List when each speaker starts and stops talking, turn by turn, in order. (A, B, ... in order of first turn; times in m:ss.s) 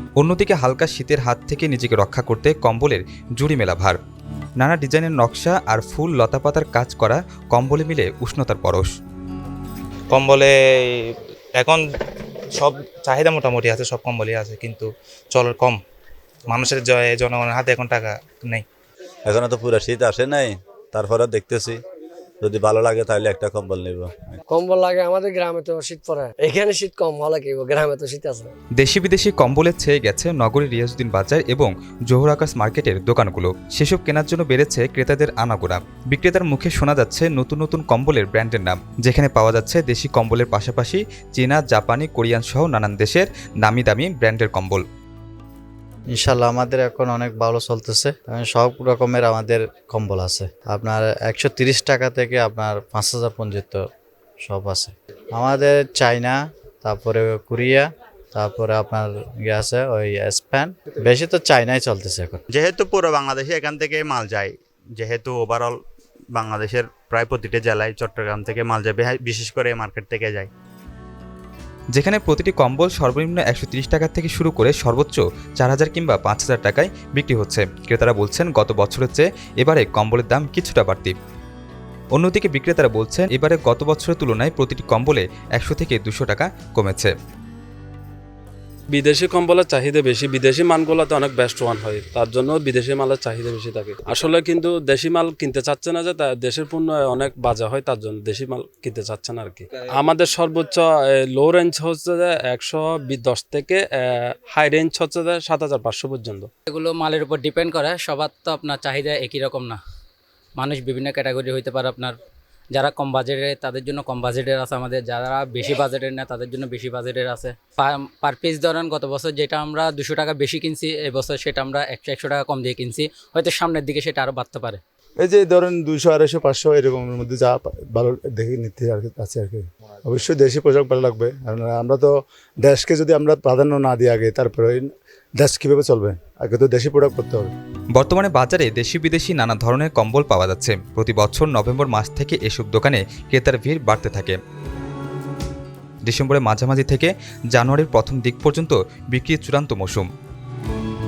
0:00.2-0:04.0 A
0:04.6-0:08.9 A
0:10.1-0:10.5 B
0:11.6-0:11.8 B
0:12.5-0:15.8 B
0:16.5-0:18.6 B
0:19.2-0:21.8 C
0:22.4-0:24.4 C
0:24.5-0:28.5 D
0:28.8-0:44.8 A
0:46.1-0:53.8 E
0:54.4-1:02.4 E
1:02.5-1:05.8 F
1:06.3-1:10.5 F
1:11.9-1:21.2 A
1:22.2-1:27.1 A
1:28.9-1:46.5 G
1:46.7-1:49.8 H
1:50.6-1:52.2 H
1:52.7-2:04.8 H
2:05.2-2:17.5 I
2:17.9-2:24.4 A
2:26.1-2:30.1 A